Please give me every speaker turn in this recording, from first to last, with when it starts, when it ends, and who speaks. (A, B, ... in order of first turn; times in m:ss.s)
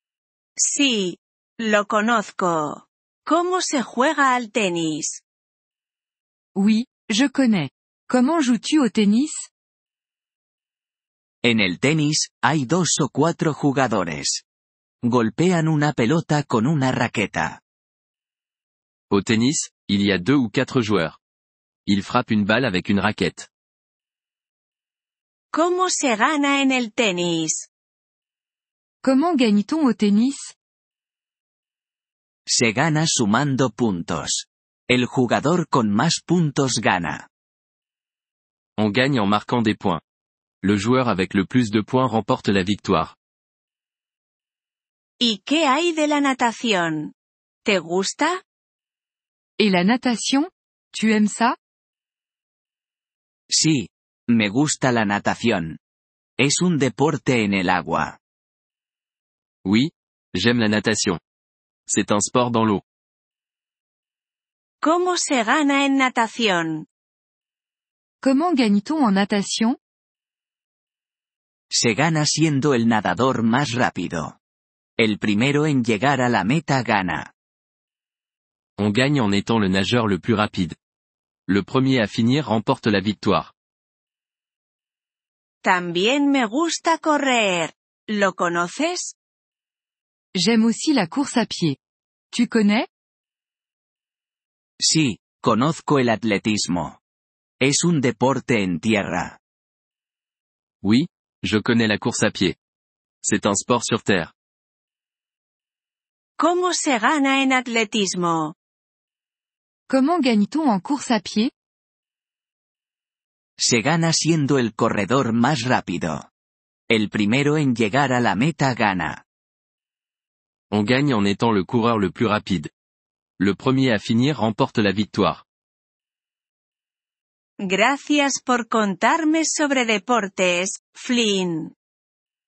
0:00.6-0:05.2 A
0:06.6-0:09.5 B
0:11.4-0:14.4 C
0:15.0-0:17.6 C
0:19.1-0:21.2 D
0:21.9-0:23.5 D
0:25.5-0:27.7 A
0:29.0-0:30.5 B
0:32.5-0:37.3 C
0:38.8-0:40.0 D
0:40.6-0:43.2 D
0:45.2-0:47.1 A
0:47.6-0:48.4 A
0:49.6-0:51.6 B
0:53.5-0:55.8 C
0:56.4-0:58.2 C
0:59.6-1:01.2 D
1:01.9-1:02.8 D
1:04.8-1:06.9 A
1:08.2-1:09.8 B
1:11.7-1:14.4 C
1:15.0-1:17.3 C
1:18.8-1:20.8 D
1:21.5-1:23.5 D
1:25.6-1:29.2 A
1:30.4-1:31.8 B
1:32.3-1:32.9 B
1:34.8-1:37.0 C
1:37.6-1:39.4 C
1:40.8-1:42.6 D
1:43.2-1:44.3 D
1:46.4-1:48.5 A
1:49.9-1:51.5 B
1:53.6-1:56.3 C
1:56.9-1:59.2 C
2:00.7-2:02.7 D
2:03.4-2:05.4 D
2:07.6-2:11.7 A